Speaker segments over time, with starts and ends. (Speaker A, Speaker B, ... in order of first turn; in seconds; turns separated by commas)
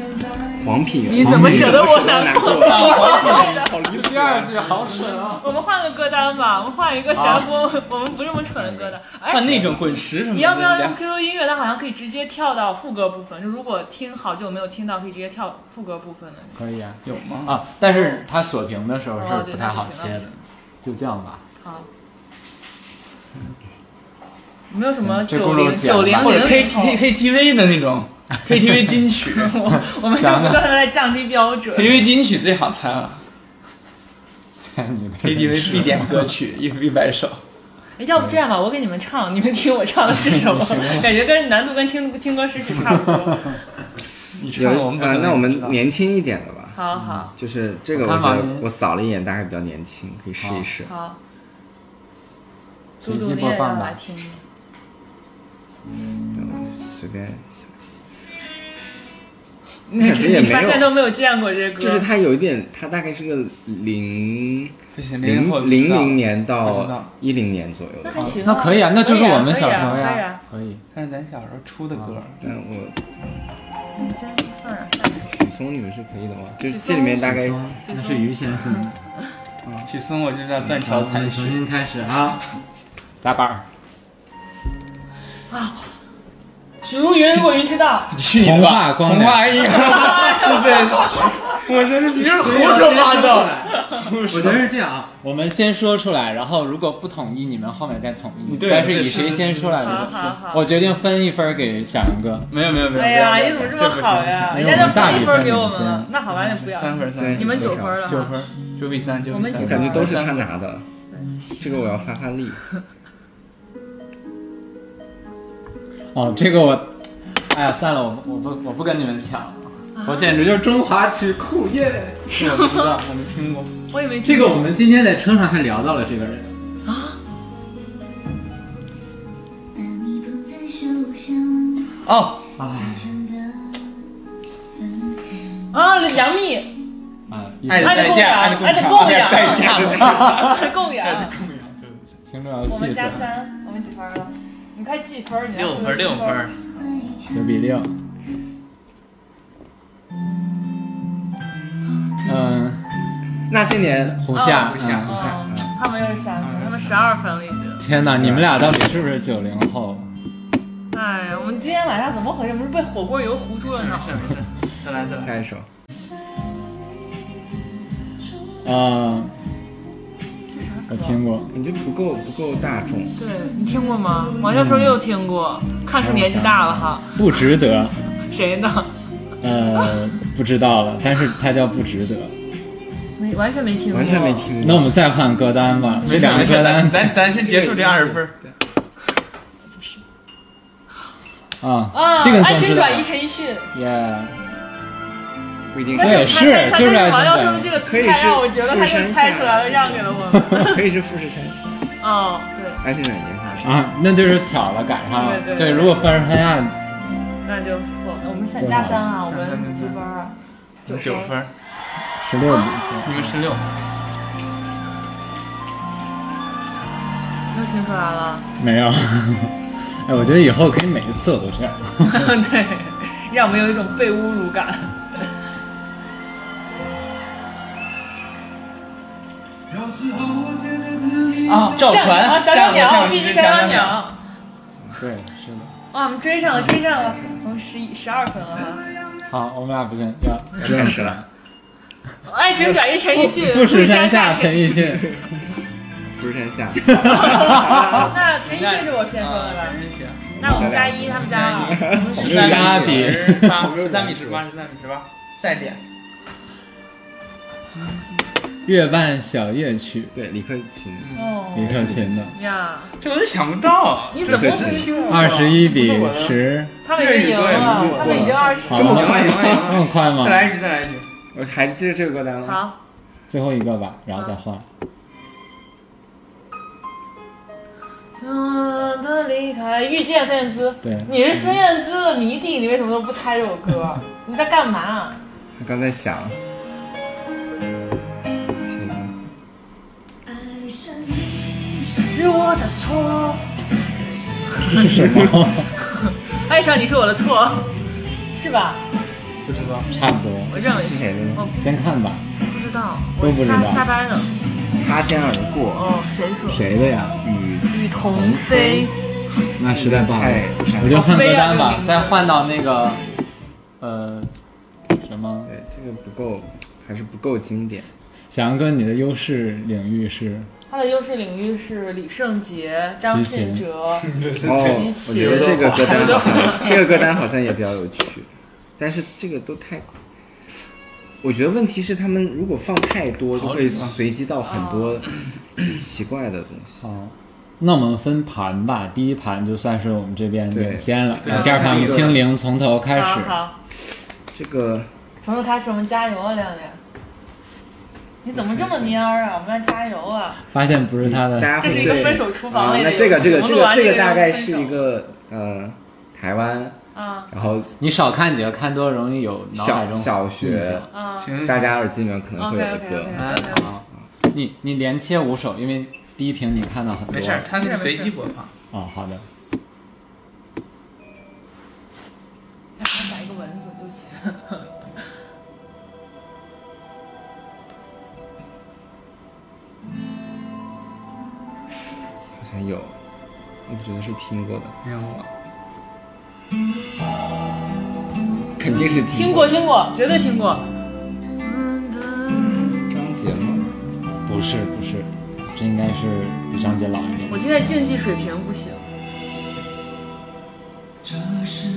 Speaker A: 0.4-4.8, Speaker B: 1.1-3.8, Speaker C: 1.1-1.9, Speaker D: 2.6-3.6, Speaker C: 3.7-5.6, Speaker B: 5.3-9.7, Speaker C: 7.1-7.5, Speaker C: 8.5-9.0, Speaker D: 9.3-11.0, Speaker B: 10.3-16.6, Speaker C: 16.5-21.4, Speaker D: 17.0-17.6, Speaker B: 17.8-18.2, Speaker B: 19.2-20.3, Speaker B: 21.6-21.9, Speaker B: 24.7-27.0, Speaker C: 25.0-26.5, Speaker D: 26.1-29.5, Speaker B: 29.3-32.0, Speaker C: 29.8-30.7, Speaker D: 31.7-33.2, Speaker C: 34.5-36.3, Speaker D: 35.2-37.4, Speaker B: 38.0-43.6, Speaker D: 40.4-41.0, Speaker D: 44.4-45.8, Speaker A: 44.5-46.8, Speaker B: 46.7-47.3, Speaker C: 47.0-47.3, Speaker A: 47.4-50.9, Speaker C: 47.9-48.7, Speaker C: 50.4-50.7, Speaker B: 50.9-51.2, Speaker B: 53.0-54.4, Speaker C: 53.0-54.0, Speaker A: 56.3-57.5, Speaker B: 59.9-62.0, Speaker A: 60.0-61.0, Speaker A: 61.8-68.4, Speaker D: 64.9-67.1, Speaker B: 68.0-70.4, Speaker C: 68.2-70.8, Speaker D: 70.9-72.4, Speaker A: 72.4-73.0, Speaker B: 74.0-75.3, Speaker A: 75.3-77.6, Speaker B: 76.7-77.2, Speaker C: 77.1-79.0, Speaker B: 77.8-78.8, Speaker D: 79.8-81.6, Speaker C: 80.7-82.4, Speaker C: 83.2-83.6, Speaker B: 85.5-85.9, Speaker B: 86.8-88.1, Speaker D: 88.1-94.7, Speaker C: 88.3-89.8, Speaker B: 89.7-90.9, Speaker C: 92.2-102.5, Speaker D: 98.5-100.3, Speaker B: 99.8-100.7, Speaker D: 102.5-105.3, Speaker B: 102.9-108.4, Speaker C: 104.5-106.1, Speaker D: 106.3-110.5, Speaker A: 107.1-108.1, Speaker B: 109.3-110.3, Speaker A: 109.5-110.8, Speaker B: 111.1-111.5, Speaker A: 111.6-112.6, Speaker C: 116.1-116.9, Speaker C: 117.5-122.3, Speaker B: 119.9-120.4, Speaker D: 122.3-123.8, Speaker B: 122.4-122.8, Speaker B: 123.9-124.7, Speaker C: 124.2-126.5, Speaker B: 126.8-127.2, Speaker E: 129.7-132.0, Speaker D: 132.1-132.4, Speaker C: 132.6-133.1, Speaker E: 132.8-133.9, Speaker E: 134.8-135.6, Speaker B: 135.7-136.7, Speaker C: 137.3-138.2, Speaker D: 137.7-142.0, Speaker B: 137.8-141.3, Speaker C: 140.1-140.4, Speaker C: 142.3-143.3, Speaker B: 142.7-146.5, Speaker D: 145.5-146.5, Speaker E: 146.7-147.4, Speaker C: 147.3-148.0, Speaker C: 152.2-152.8, Speaker A: 153.5-154.2, Speaker C: 154.2-155.3, Speaker B: 154.3-157.8, Speaker D: 154.4-155.4, Speaker A: 155.1-155.7, Speaker D: 156.4-157.1, Speaker C: 157.8-160.1, Speaker A: 158.1-159.0, Speaker B: 160.9-164.3, Speaker D: 163.7-165.4, Speaker A: 165.2-165.7, Speaker C: 168.6-169.3, Speaker B: 170.5-171.2, Speaker C: 170.9-171.5, Speaker A: 171.5-173.2, Speaker B: 173.2-177.2, Speaker C: 174.5-175.0, Speaker C: 176.0-178.0, Speaker B: 178.2-178.9, Speaker C: 179.4-182.3, Speaker B: 183.2-184.5, Speaker A: 183.9-184.9, Speaker C: 184.6-187.2, Speaker D: 186.0-188.3, Speaker A: 187.2-188.5, Speaker C: 191.6-193.1, Speaker B: 191.9-193.7, Speaker C: 193.7-194.4, Speaker A: 195.7-196.6, Speaker B: 195.9-200.8, Speaker C: 196.0-197.8, Speaker A: 197.8-201.6, Speaker B: 202.0-202.8, Speaker A: 202.8-203.7, Speaker C: 203.6-206.8, Speaker B: 205.1-206.0, Speaker B: 207.4-210.3, Speaker C: 208.6-209.1, Speaker D: 209.3-210.0, Speaker B: 210.8-211.3, Speaker D: 210.9-211.5, Speaker C: 212.2-213.3, Speaker B: 212.5-212.8, Speaker D: 213.0-213.7, Speaker B: 217.5-218.5, Speaker C: 218.6-222.3, Speaker B: 222.0-225.3, Speaker D: 231.4-234.0, Speaker B: 231.7-234.2, Speaker C: 235.0-235.7, Speaker B: 235.9-238.9, Speaker C: 239.3-241.2, Speaker A: 240.6-241.2, Speaker B: 242.2-245.0, Speaker C: 243.1-245.2, Speaker A: 246.1-248.2, Speaker C: 247.0-248.0, Speaker B: 247.1-249.8, Speaker D: 248.4-250.3, Speaker A: 250.3-254.4, Speaker B: 250.4-252.3, Speaker D: 251.1-255.8, Speaker C: 252.1-253.7, Speaker C: 258.6-260.1, Speaker A: 260.1-262.3, Speaker B: 261.1-262.9, Speaker C: 261.5-262.3, Speaker D: 263.0-266.4, Speaker B: 264.1-265.4, Speaker A: 264.2-264.9, Speaker C: 265.1-266.7, Speaker B: 266.8-269.1, Speaker D: 266.9-271.1, Speaker A: 267.5-269.9, Speaker C: 268.1-270.5, Speaker A: 271.3-272.6, Speaker B: 272.4-272.8, Speaker C: 273.3-274.6, Speaker B: 278.2-285.2, Speaker C: 280.8-281.4, Speaker A: 285.6-286.4, Speaker A: 288.6-289.1, Speaker E: 290.3-292.2, Speaker B: 292.0-293.4, Speaker C: 294.6-295.7, Speaker B: 295.8-297.7, Speaker B: 298.3-298.8, Speaker D: 299.4-299.9, Speaker C: 299.9-300.6, Speaker B: 300.5-301.6, Speaker A: 300.5-301.5, Speaker C: 301.6-302.2, Speaker B: 302.5-304.3, Speaker C: 303.2-303.9, Speaker A: 304.7-305.9, Speaker B: 305.7-306.6, Speaker A: 306.5-308.9, Speaker B: 307.7-308.9, Speaker C: 309.6-313.0, Speaker A: 309.6-311.2, Speaker B: 310.8-312.3, Speaker C: 313.8-314.3, Speaker C: 314.9-315.5, Speaker A: 315.5-317.9, Speaker C: 318.3-320.5, Speaker B: 320.7-326.8, Speaker C: 323.0-323.6, Speaker D: 324.0-327.1, Speaker A: 324.4-329.9, Speaker A: 331.2-336.9, Speaker D: 333.3-334.0, Speaker B: 334.4-335.0, Speaker C: 336.8-343.4, Speaker A: 340.5-342.2, Speaker D: 341.2-342.2, Speaker B: 341.3-341.9, Speaker B: 342.9-343.6, Speaker A: 344.3-344.9, Speaker B: 345.2-346.8, Speaker B: 348.2-350.4, Speaker C: 350.5-352.2, Speaker A: 351.0-356.8, Speaker B: 351.6-354.8, Speaker B: 356.9-357.3, Speaker A: 357.3-357.7, Speaker C: 357.8-360.9, Speaker A: 359.5-360.9, Speaker B: 360.9-361.4, Speaker D: 361.2-361.9, Speaker A: 361.4-363.4, Speaker B: 362.4-363.7, Speaker D: 363.1-363.8, Speaker C: 364.3-367.5, Speaker D: 367.1-368.5, Speaker B: 367.5-368.1, Speaker C: 368.7-369.2, Speaker B: 372.8-374.7, Speaker A: 382.4-382.9, Speaker A: 383.7-384.8, Speaker D: 384.8-385.3, Speaker A: 388.6-389.6, Speaker B: 389.1-390.6, Speaker B: 391.4-392.9, Speaker A: 392.9-393.7, Speaker C: 394.2-397.4, Speaker B: 397.3-398.8